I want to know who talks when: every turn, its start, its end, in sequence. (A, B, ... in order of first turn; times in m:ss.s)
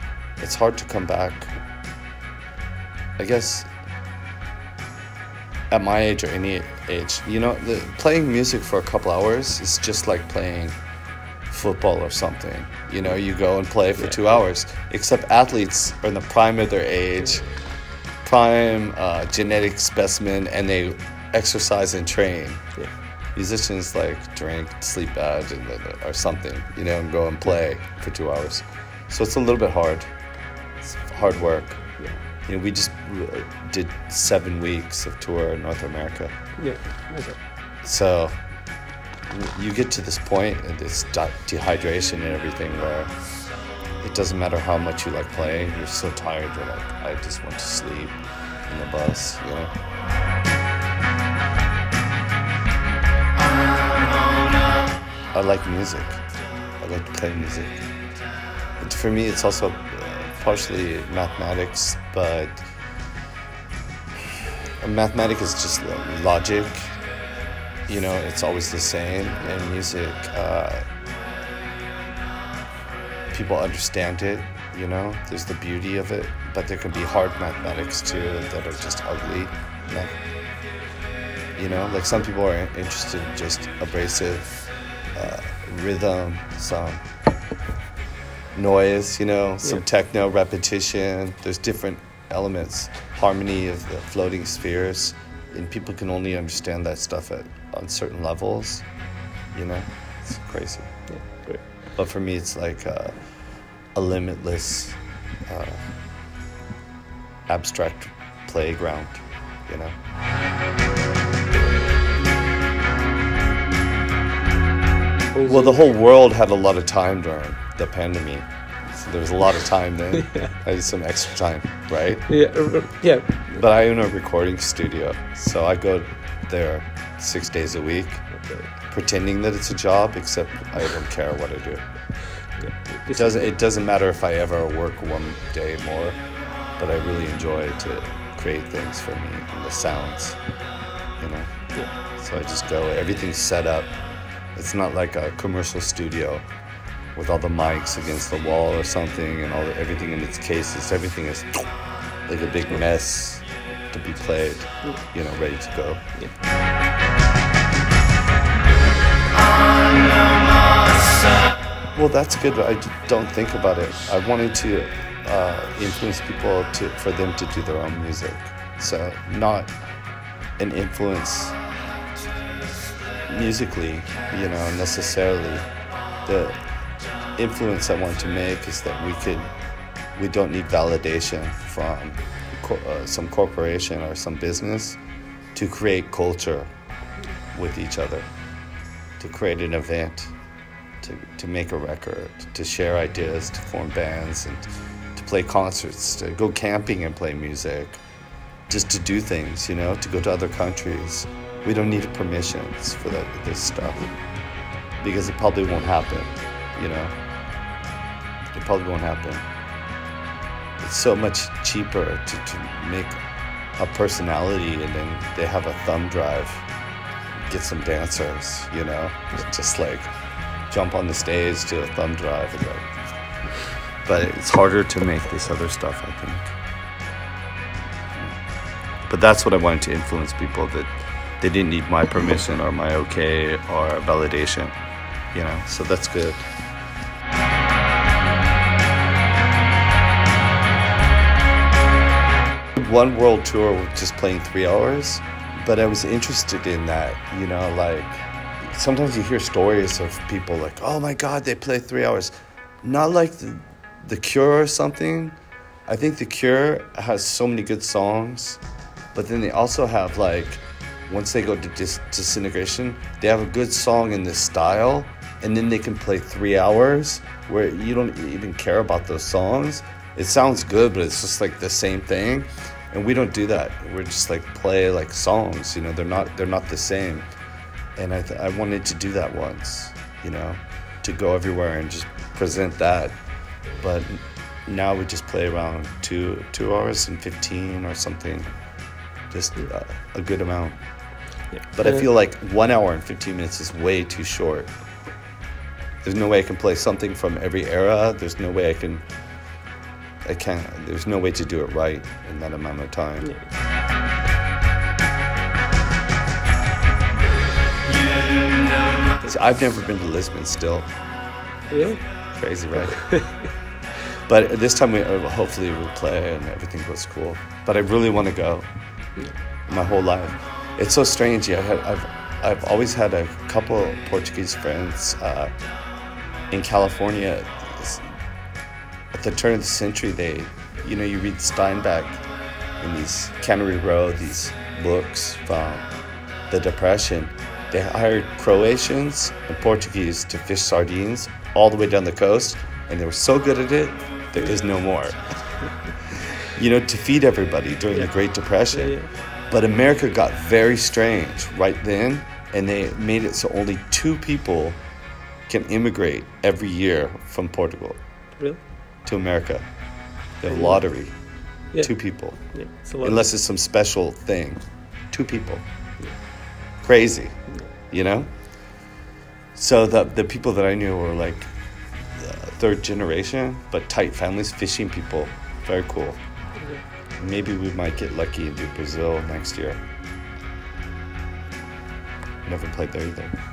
0:00.4-0:01.5 A
0:03.2-0:03.7 A
0:05.7-0:10.8 A
0:11.5-0:17.5 A
0:14.0-0:14.4 B
0:18.2-0:22.7 A
0:23.3-0:30.1 A
0:30.8-0:36.3 A
0:36.6-0:37.4 B
0:37.8-0:38.4 A
0:39.3-0:43.2 A
0:44.0-0:49.7 A
0:55.3-0:56.2 A
0:56.8-0:57.9 A
0:58.8-1:02.7 A
1:04.2-1:07.0 A
1:07.9-1:10.8 A
1:13.3-1:20.2 A
1:21.6-1:27.0 A
1:28.6-1:38.9 A
1:39.5-1:45.9 A
1:41.1-1:41.7 B
1:47.5-1:50.0 A
1:55.3-1:55.9 B
1:55.4-2:02.3 A
2:02.3-2:03.6 B
2:03.5-2:12.2 A
2:08.3-2:08.7 B
2:12.6-2:13.5 B
2:13.1-2:16.2 A
2:16.8-2:20.4 A
2:21.2-2:24.0 A
2:24.6-2:26.4 A
2:27.2-2:31.7 A
2:32.2-2:36.0 A
2:42.0-2:49.7 A
2:50.6-2:51.6 A
2:53.3-2:55.7 A
2:56.2-2:56.6 A
2:57.4-2:59.5 A
3:00.2-3:05.0 A
3:05.6-3:06.7 A
3:07.5-3:08.3 A
3:09.2-3:10.3 A
3:11.0-3:18.0 A
3:18.7-3:24.2 A
3:25.0-3:27.1 A
3:28.5-3:29.5 A
3:30.8-3:33.2 A
3:33.7-3:36.7 A
3:37.4-3:40.1 A
3:40.7-3:42.9 A
3:44.0-3:46.5 A
3:49.1-3:54.8 A
3:55.3-3:56.5 A
4:02.8-4:18.6 A
4:19.1-4:37.3 A
4:38.0-4:48.6 A
4:49.3-4:54.8 A
4:51.5-4:52.0 B
4:56.0-4:59.1 A
5:00.2-5:03.3 A
5:03.2-5:03.5 B
5:09.2-5:10.9 A
5:11.7-5:12.0 B
5:12.3-5:13.5 A
5:12.9-5:13.5 B
5:14.1-5:18.7 A
5:19.7-5:25.5 A
5:26.5-5:28.1 A
5:29.1-5:32.2 A
5:32.8-5:35.9 A
5:36.5-5:45.9 A
5:46.4-5:54.8 A
5:47.9-5:49.1 B
5:55.5-5:58.0 A
5:59.0-5:59.7 A
6:00.4-6:05.7 A
6:00.5-6:00.8 B
6:01.7-6:03.3 B
6:06.8-6:08.8 A
6:09.6-6:11.5 A
6:12.2-6:16.2 A
6:16.6-6:16.8 B
6:17.2-6:19.8 A
6:22.4-6:23.4 A